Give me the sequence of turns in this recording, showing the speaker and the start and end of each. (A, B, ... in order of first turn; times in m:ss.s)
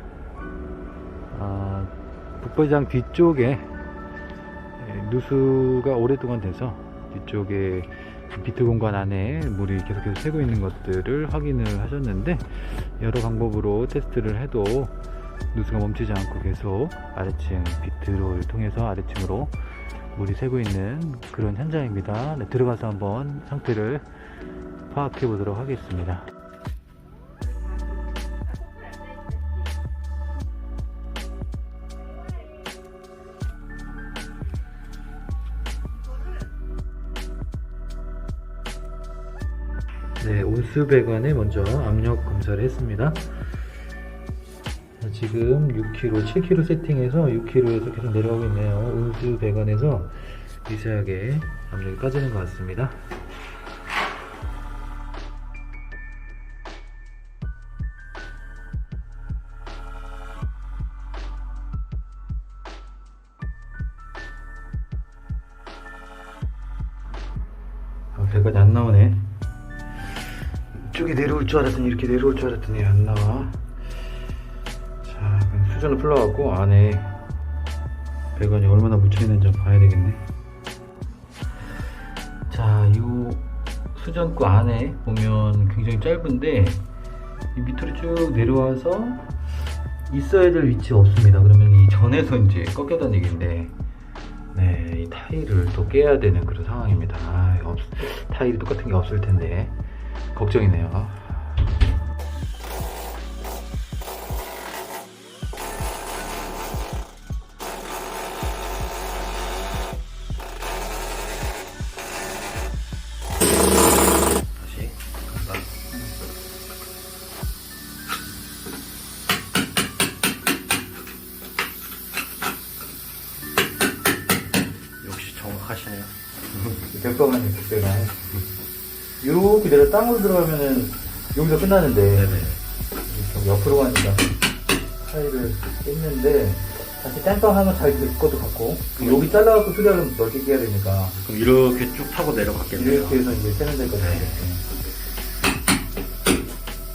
0:01.3-0:03.7 A
0:04.8-0:15.0 A
0:15.5-0:19.6 A
0:20.2-0:24.1 A
0:24.9-0:26.3 A
0:40.2-0:43.3 A
0:45.0-0:53.0 A
1:08.1-1:09.3 A
1:10.7-1:13.6 A
1:15.0-1:17.2 A
1:18.4-1:20.2 A
1:22.5-1:26.8 A
1:27.5-1:29.3 A
1:30.1-1:33.7 A
1:34.5-1:39.8 A
1:40.3-1:41.6 A
1:54.6-1:55.7 B
2:05.0-2:06.8 B
2:06.9-2:08.2 A
2:09.2-2:12.4 A
2:12.2-2:12.6 B
2:13.1-2:14.3 A
2:15.0-2:21.2 A
2:19.0-2:19.3 B
2:21.2-2:23.2 B
2:22.7-2:24.7 A
2:24.0-2:24.4 B